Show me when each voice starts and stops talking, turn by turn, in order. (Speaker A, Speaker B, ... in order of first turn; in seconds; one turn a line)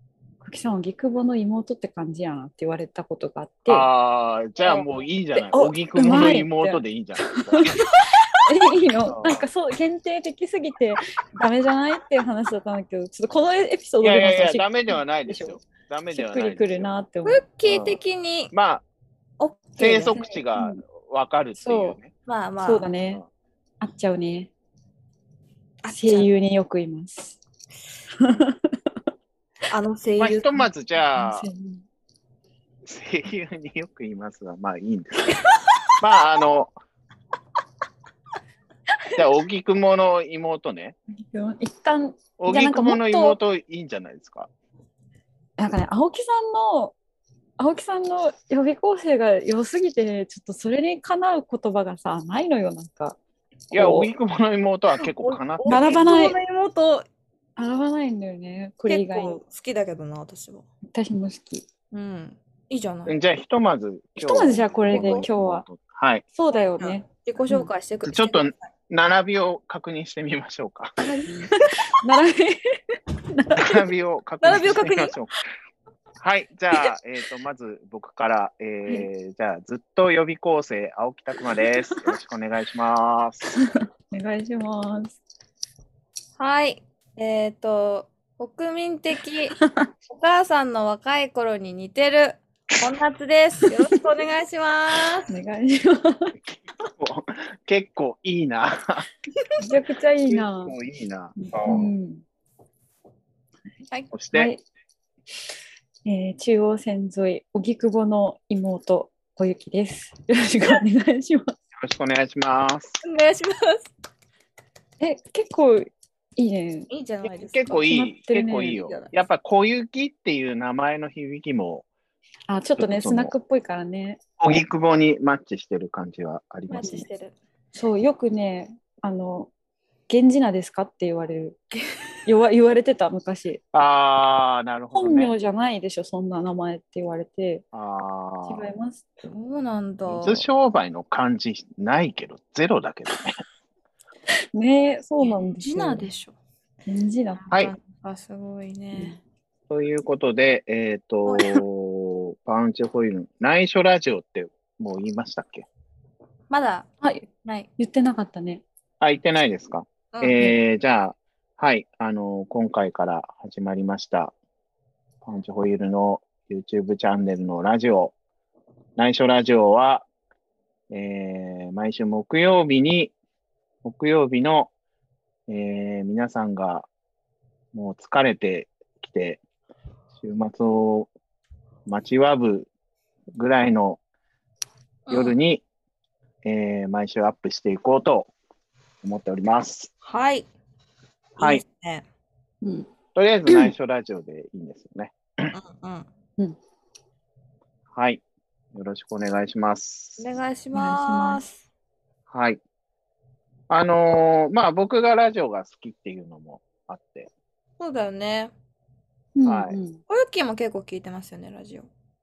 Speaker A: 0.4-3.9
Speaker B: 3.7-7.7
Speaker C: 4.6-5.5
Speaker A: 5.5-17.4
Speaker B: 9.1-9.4
Speaker B: 14.0-17.0
Speaker C: 17.2-18.5
Speaker B: 17.6-18.0
Speaker B: 18.5-18.8
Speaker C: 19.4-20.1
Speaker B: 19.8-22.1
Speaker A: 20.0-20.8
Speaker A: 21.6-22.0
Speaker C: 22.2-22.9
Speaker A: 22.6-23.2
Speaker A: 23.8-24.5
Speaker C: 25.8-26.3
Speaker A: 25.9-27.4
Speaker A: 28.2-28.9
Speaker C: 29.7-30.6
Speaker B: 30.2-31.5
Speaker A: 31.1-31.8
Speaker B: 32.8-35.4
Speaker B: 36.0-36.7
Speaker B: 39.1-41.0
Speaker A: 41.3-43.4
Speaker B: 42.4-44.5
Speaker A: 45.6-47.0
Speaker A: 47.6-53.2
Speaker A: 53.7-54.1
Speaker B: 53.7-56.2
Speaker C: 55.0-57.0
Speaker A: 55.7-56.4
Speaker A: 57.6-59.4
Speaker C: 58.9-60.6
Speaker A: 60.9-61.6
Speaker C: 61.9-63.1
Speaker B: 63.0-66.2
Speaker A: 64.2-65.6
Speaker C: 64.9-65.2
Speaker A: 66.3-67.7
Speaker C: 66.8-68.5
Speaker B: 68.0-71.0
Speaker C: 71.0-71.9
Speaker A: 71.2-73.8
Speaker B: 73.6-75.4
Speaker C: 74.4-75.1
Speaker B: 76.2-83.5
Speaker A: 83.5-85.2
Speaker C: 86.4-89.6
Speaker A: 89.6-89.8
Speaker C: 90.1-95.3
Speaker A: 95.3-96.3
Speaker B: 97.0-99.1
Speaker A: 99.6-100.7
Speaker B: 100.3-101.9
Speaker A: 101.4-102.2
Speaker B: 104.1-104.5
Speaker A: 104.3-104.6
Speaker A: 106.0-111.5
Speaker B: 111.8-113.0
Speaker C: 113.0-113.9
Speaker A: 115.0-116.9
Speaker C: 116.9-117.9
Speaker B: 117.2-121.8
Speaker A: 117.8-118.9
Speaker C: 118.8-119.1
Speaker A: 122.5-124.2
Speaker B: 122.8-123.3
Speaker B: 124.4-127.1
Speaker C: 126.7-127.3
Speaker A: 127.7-129.5
Speaker A: 130.1-131.6
Speaker A: 132.2-133.6
Speaker B: 133.7-135.3
Speaker A: 134.9-137.6
Speaker B: 137.7-138.7
Speaker A: 138.4-139.1
Speaker C: 139.2-140.4
Speaker B: 140.1-143.4
Speaker A: 144.5-146.1
Speaker C: 145.2-146.3
Speaker A: 146.9-147.4
Speaker C: 147.4-149.2
Speaker A: 148.9-149.2
Speaker B: 149.7-155.7
Speaker C: 151.3-151.6
Speaker C: 156.5-156.9
Speaker A: 157.0-158.6
Speaker C: 157.4-157.7
Speaker B: 159.0-164.3
Speaker C: 160.1-160.5
Speaker B: 165.2-168.1
Speaker B: 169.0-170.1
Speaker B: 170.9-173.1
Speaker B: 173.8-174.7
Speaker B: 175.5-176.9
Speaker B: 177.7-179.4
Speaker B: 180.2-181.1
Speaker B: 181.8-182.7
Speaker B: 183.3-184.0
Speaker C: 185.1-185.4
Speaker B: 185.1-185.6
Speaker B: 186.4-188.3
Speaker B: 189.0-189.9
Speaker C: 190.0-190.5
Speaker C: 191.4-192.0
Speaker A: 192.6-192.9
Speaker B: 193.1-195.5
Speaker A: 193.5-193.7
Speaker C: 195.5-196.1
Speaker B: 197.9-198.2
Speaker B: 198.7-200.3
Speaker C: 200.2-201.6
Speaker A: 200.7-201.4
Speaker B: 202.3-202.6
Speaker B: 203.7-207.3
Speaker C: 207.8-208.5
Speaker A: 209.3-210.0
Speaker B: 209.4-209.8
Speaker C: 210.1-211.9